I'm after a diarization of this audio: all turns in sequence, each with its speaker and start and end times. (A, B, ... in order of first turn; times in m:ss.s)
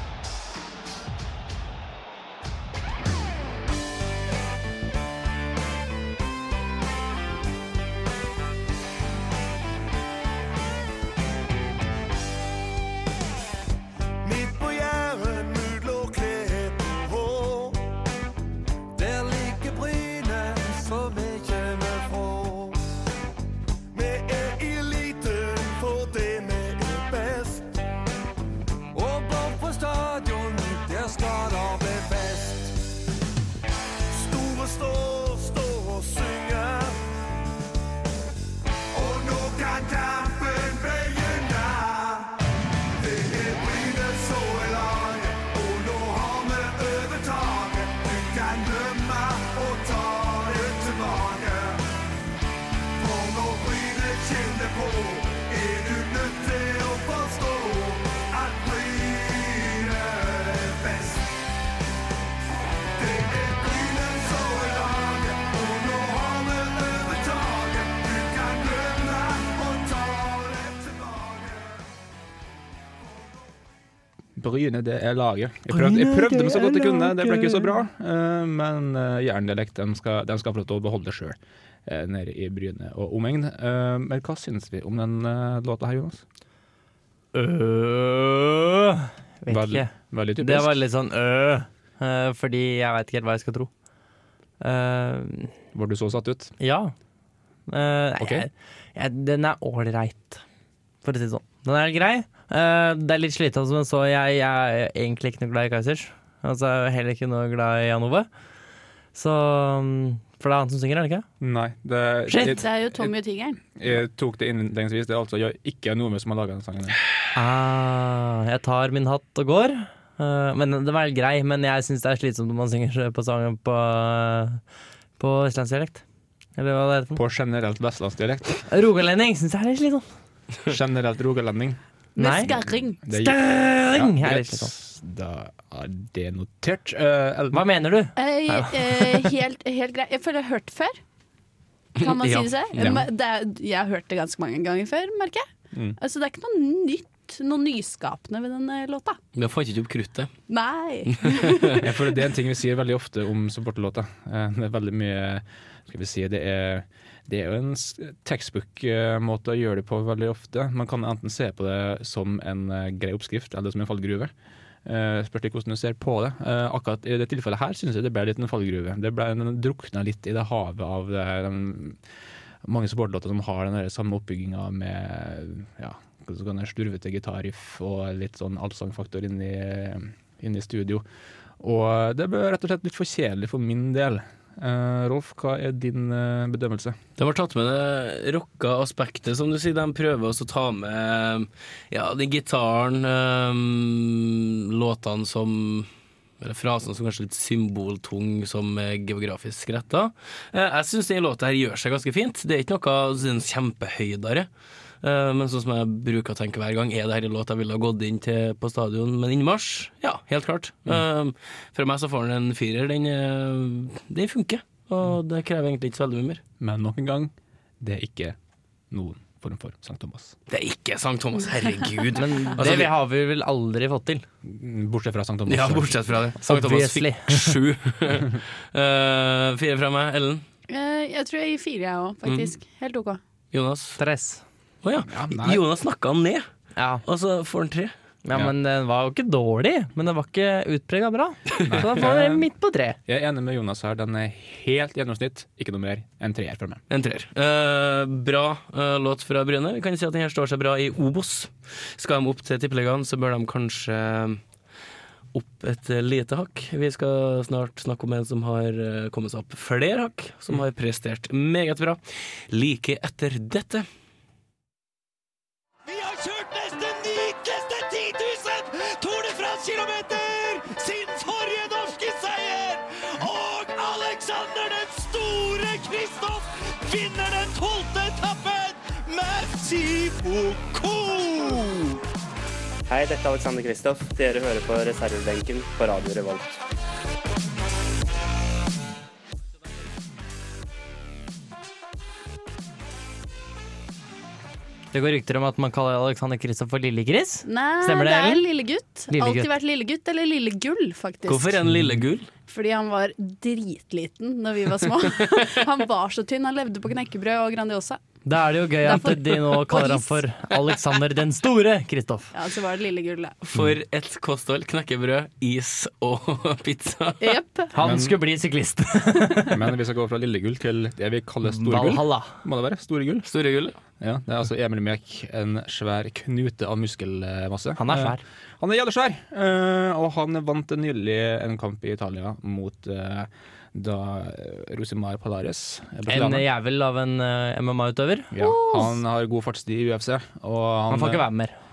0:14.2-0:17.9 A
0:18.9-0:22.8 A
0:23.9-0:27.7 A
0:28.9-0:32.8 A
0:34.1-0:37.0 A
0:38.9-0:42.4 A
0:43.0-0:51.9 A
0:53.0-1:01.4 A
1:02.9-1:11.9 A
1:13.0-1:13.6 A
1:14.4-1:26.2 B
1:15.7-1:17.8 C
1:27.3-1:33.7 C
1:29.5-1:30.7 B
1:34.6-1:35.5 C
1:35.7-1:36.5 B
1:36.6-1:36.9 C
1:37.7-1:40.4 C
1:38.2-1:38.5 B
1:41.0-1:48.3 C
1:49.1-1:51.3 C
1:51.4-1:53.1 B
1:52.3-1:53.6 D
1:53.8-1:57.0 B
1:57.3-2:04.6 C
2:05.2-2:06.0 C
2:06.6-2:07.2 C
2:07.1-2:08.7 B
2:08.7-2:10.0 C
2:10.6-2:11.8 B
2:12.2-2:13.0 D
2:12.2-2:12.5 C
2:12.4-2:17.6 B
2:13.1-2:14.7 C
2:17.5-2:19.3 C
2:18.2-2:21.0 D
2:22.0-2:22.5 E
2:22.0-2:25.4 D
2:22.8-2:23.1 B
2:26.0-2:29.2 D
2:29.3-2:30.3 E
2:30.5-2:32.2 D
2:31.2-2:31.5 E
2:31.8-2:44.3 B
2:44.8-2:52.0 B
2:52.6-3:01.0 B
3:01.6-3:07.0 B
3:07.2-3:15.9 E
3:16.4-3:24.5 E
3:25.0-3:36.4 E
3:36.6-3:38.4 B
3:38.9-3:40.3 B
3:40.5-3:42.9 E
3:42.2-3:44.2 C
3:44.4-3:45.9 B
3:45.5-3:50.4 E
3:46.4-3:47.6 C
3:50.7-3:53.2 D
3:52.2-3:52.5 E
3:53.5-3:54.0 E
3:54.0-3:54.4 C
3:54.8-3:56.4 E
3:55.0-3:55.6 B
3:56.8-3:57.0 C
3:57.0-3:57.9 E
3:58.2-4:03.0 C
4:01.6-4:02.5 B
4:03.0-4:06.8 B
4:06.9-4:14.4 E
4:15.3-4:23.8 E
4:25.9-4:42.0 F
4:42.9-4:46.6 G
4:54.9-4:58.4 C
4:57.4-5:01.5 D
4:59.1-4:59.5 C
5:01.3-5:02.3 E
5:02.5-5:08.0 D
5:08.2-5:12.3 C
5:08.8-5:10.2 D
5:12.3-5:13.4 D
5:13.4-5:17.4 E
5:17.2-5:17.7 D
5:17.7-5:19.6 C
5:17.8-5:18.2 B
5:19.5-5:23.3 B
5:21.4-5:22.3 C
5:23.2-5:23.8 E
5:24.0-5:36.5 B
5:27.8-5:28.2 C
5:36.1-5:38.3 C
5:38.3-5:41.3 B
5:38.4-5:38.8 D
5:40.9-5:41.6 C